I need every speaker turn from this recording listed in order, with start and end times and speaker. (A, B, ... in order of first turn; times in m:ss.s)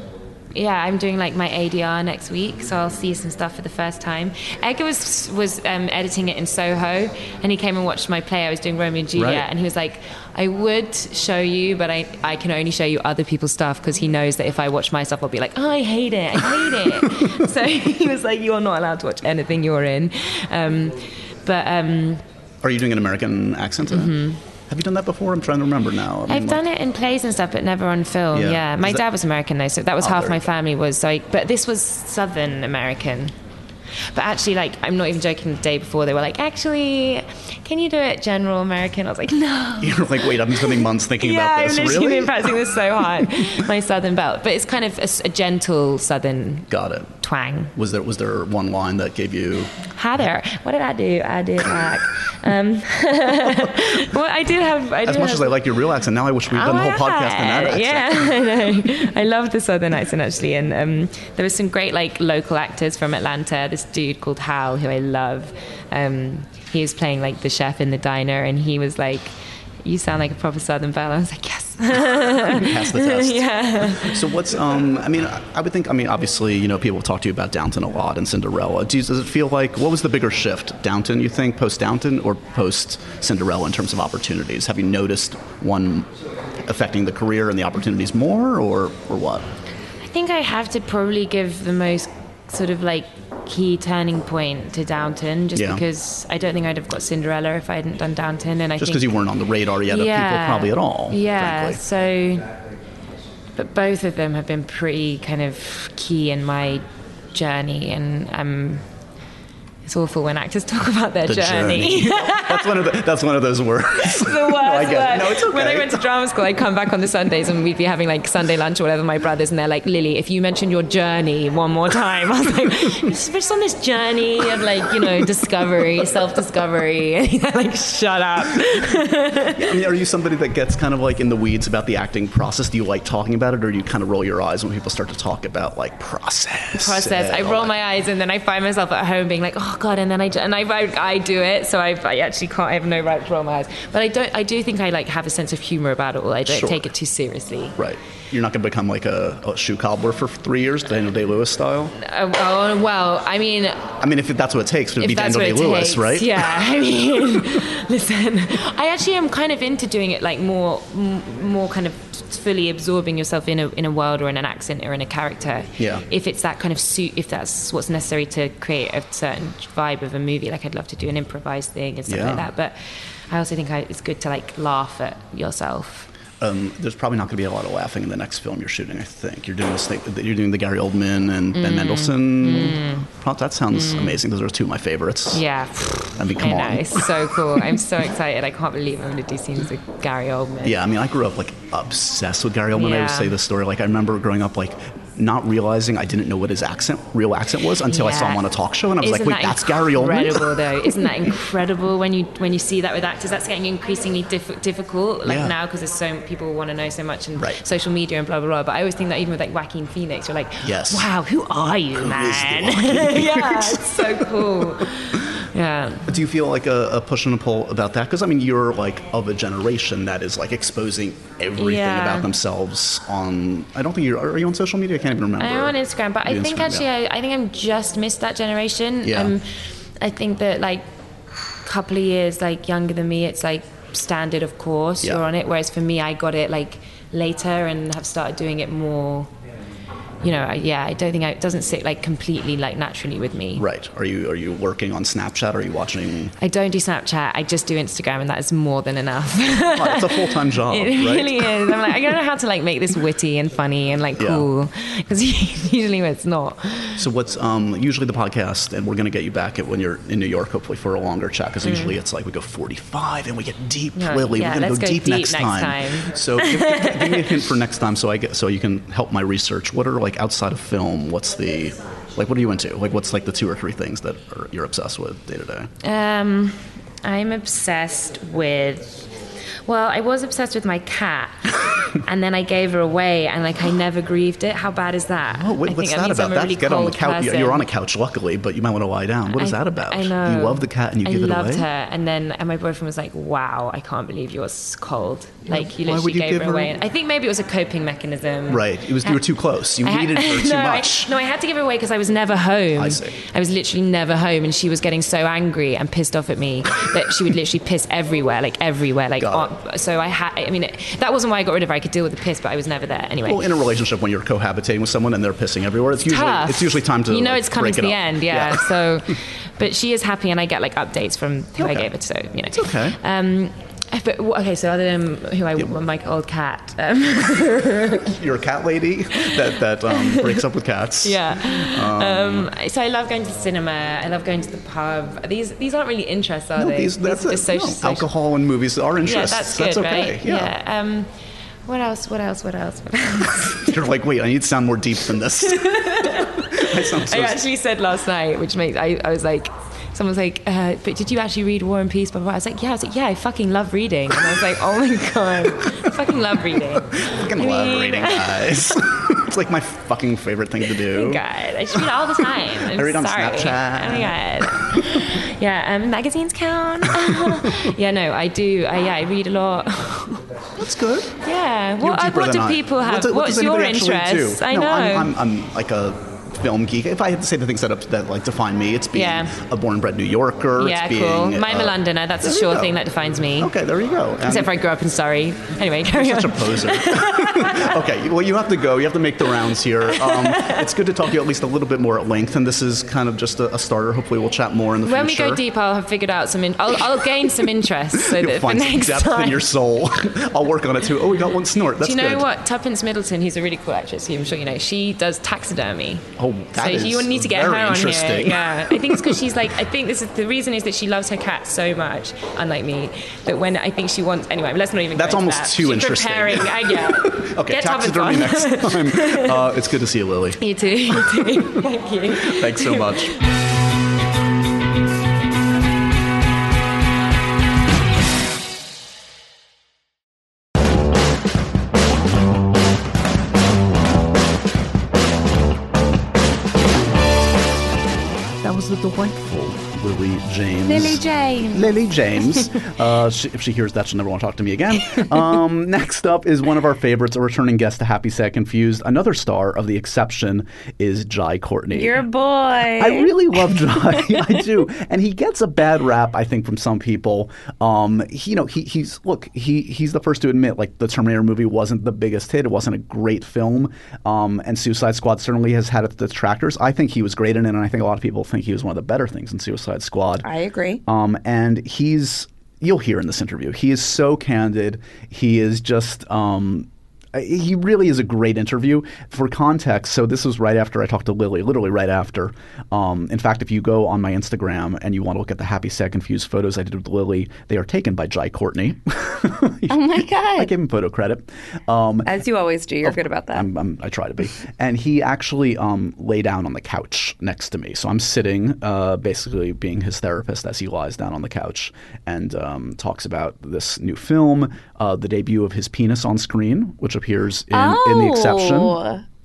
0:00.5-0:22.2 A
0:09.1-0:09.5 B
0:22.6-0:24.2 B
0:23.9-0:24.4 A
0:24.7-0:26.6 B
0:26.3-0:33.3 A
0:28.3-0:29.0 B
0:30.0-0:30.4 B
0:34.1-0:46.7 A
0:39.8-0:43.3 B
0:46.7-0:47.1 B
0:47.2-0:47.7 A
0:47.8-0:49.7 B
0:49.9-0:55.6 A
0:55.0-0:58.8 B
0:56.5-1:14.2 A
1:12.4-1:26.1 B
1:26.6-1:29.5 B
1:30.0-1:39.1 A
1:35.5-1:35.8 B
1:38.8-1:41.8 B
1:39.8-1:42.5 A
1:43.6-1:48.8 A
1:49.8-1:52.8 A
1:51.2-1:56.0 B
1:54.0-2:09.8 A
2:09.5-2:17.7 B
2:16.7-2:27.8 A
2:26.5-2:26.9 B
2:27.8-2:31.9 B
2:32.0-2:33.9 A
2:34.0-2:36.6 B
2:35.0-2:52.8 A
2:45.8-2:46.0 B
2:52.1-2:52.5 B
2:53.3-2:56.1 A
2:56.4-3:05.4 B
3:01.5-3:03.1 A
3:03.7-3:04.2 A
3:05.3-3:10.8 A
3:06.2-3:07.0 B
3:10.6-3:20.9 B
3:12.7-3:13.4 A
3:17.8-3:36.1 A
3:25.2-3:25.5 B
3:30.6-3:31.1 B
3:31.9-3:34.6 B
3:36.1-3:46.9 B
3:41.6-3:42.3 A
3:45.4-3:50.8 A
3:49.0-3:49.3 B
3:51.6-3:59.3 A
3:55.0-3:55.3 B
4:00.2-4:03.6 A
4:03.6-4:06.3 B
4:06.4-4:17.0 A
4:09.7-4:11.9 B
4:14.2-4:14.5 B
4:17.0-4:35.7 B
4:21.6-4:22.0 A
4:24.0-4:27.4 A
4:35.8-4:39.1 A
4:39.6-4:47.7 A
4:45.3-4:51.7 B
4:49.3-5:13.5 A
4:55.5-4:56.7 B
4:58.5-5:01.1 B
5:02.7-5:03.2 B
5:09.2-5:09.5 B
5:13.2-5:18.6 B
5:16.1-5:28.1 A
5:21.6-5:21.9 B
5:22.5-5:23.0 B
5:28.0-5:32.5 B
5:29.2-5:30.4 A
5:31.0-5:38.1 A
5:36.6-5:40.5 B
5:39.0-5:41.1 A
5:41.6-5:43.9 A
5:43.6-5:47.4 B
5:45.4-5:58.8 A
5:56.9-6:01.2 B
6:00.7-6:10.2 A
6:02.6-6:05.1 B
6:07.1-6:07.7 B
6:10.6-6:11.1 B
6:11.2-6:15.1 A
6:11.8-6:22.7 B
6:18.9-6:19.3 A
6:20.6-6:23.5 A
6:23.4-6:24.5 B
6:24.2-6:27.8 A
6:25.9-6:35.4 B
6:29.8-6:30.7 A
6:34.8-6:39.5 A
6:38.0-6:42.3 B
6:41.8-6:59.5 A
6:46.2-6:49.2 B
6:54.9-7:01.4 B
7:00.4-7:03.2 A
7:02.2-7:03.1 B
7:18.4-7:32.0 B
7:20.7-7:21.7 C
7:31.7-7:33.2 C
7:32.7-7:50.3 B
7:50.2-7:50.8 C
7:50.8-8:12.2 B
8:09.7-8:10.5 C
8:12.0-8:13.5 C
8:12.8-8:28.8 B
8:27.5-8:29.0 C